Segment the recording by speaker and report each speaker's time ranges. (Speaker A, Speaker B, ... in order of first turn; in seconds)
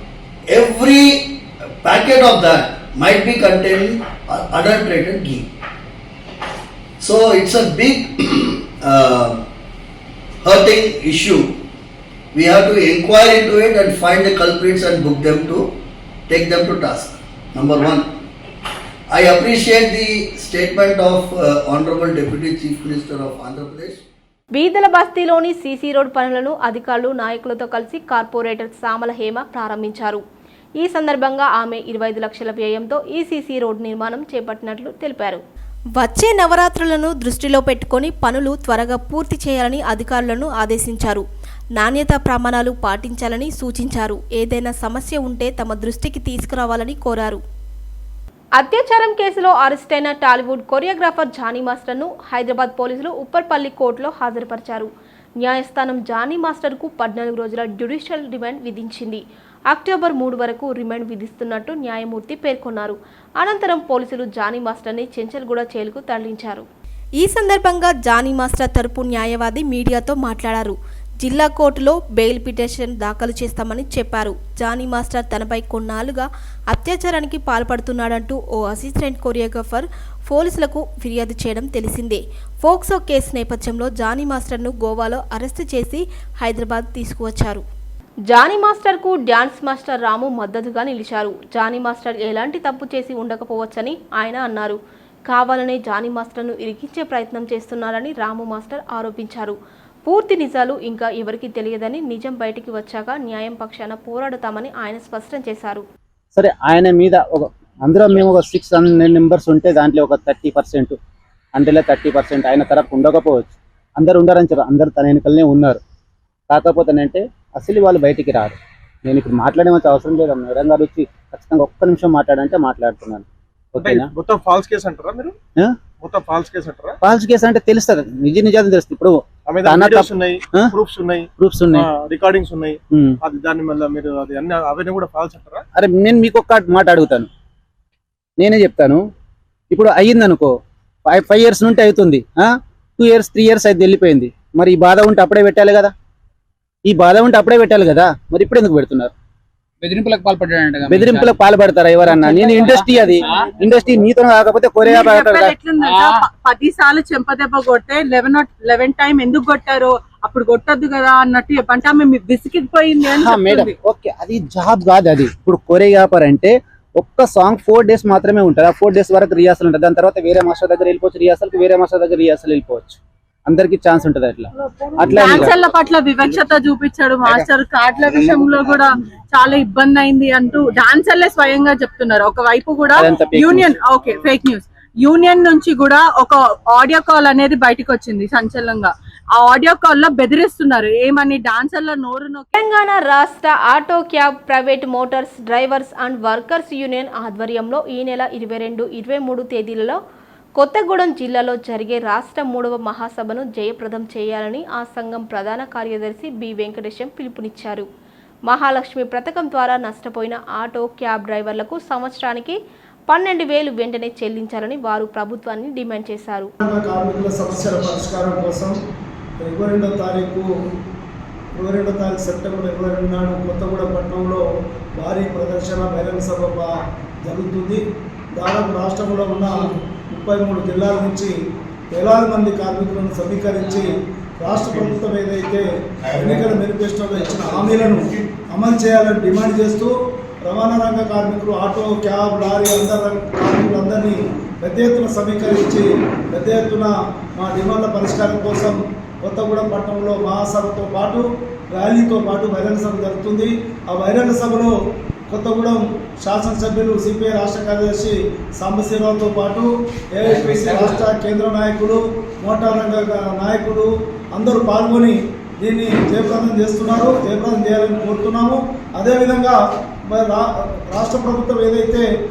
Speaker A: 0.5-5.5, 7.0-9.4, 10.4-11.5, 12.3-15.7, 16.3-18.1, 19.1-24.0
Speaker B: 24.6-30.2, 30.8-35.4, 36.0-41.2, 41.8-47.4, 48.6-54.9, 55.4-66.7, 67.2-87.6, 88.3-105.8, 192.5-200.0, 200.6-207.9, 208.5-212.6, 213.1-216.5
Speaker C: 106.4-111.0, 111.5-115.8, 116.5-123.2, 123.7-124.1, 127.0-130.7, 131.4-131.9, 135.7-137.3, 138.4-139.0, 139.7-140.5, 141.1-145.9, 146.9-149.1, 150.9-155.6, 163.1-175.6, 182.9-183.8
Speaker D: 123.8-125.4, 126.0-127.0, 129.5-135.6
Speaker E: 149.8-151.2, 152.3-153.5
Speaker F: 154.8-163.7, 175.0-192.5
Speaker G: 216.6-218.8, 219.4-220.5, 221.6-224.4, 225.0-226.7, 227.2-227.8, 228.4-231.3, 231.9-239.9, 240.5-254.7, 255.3-272.1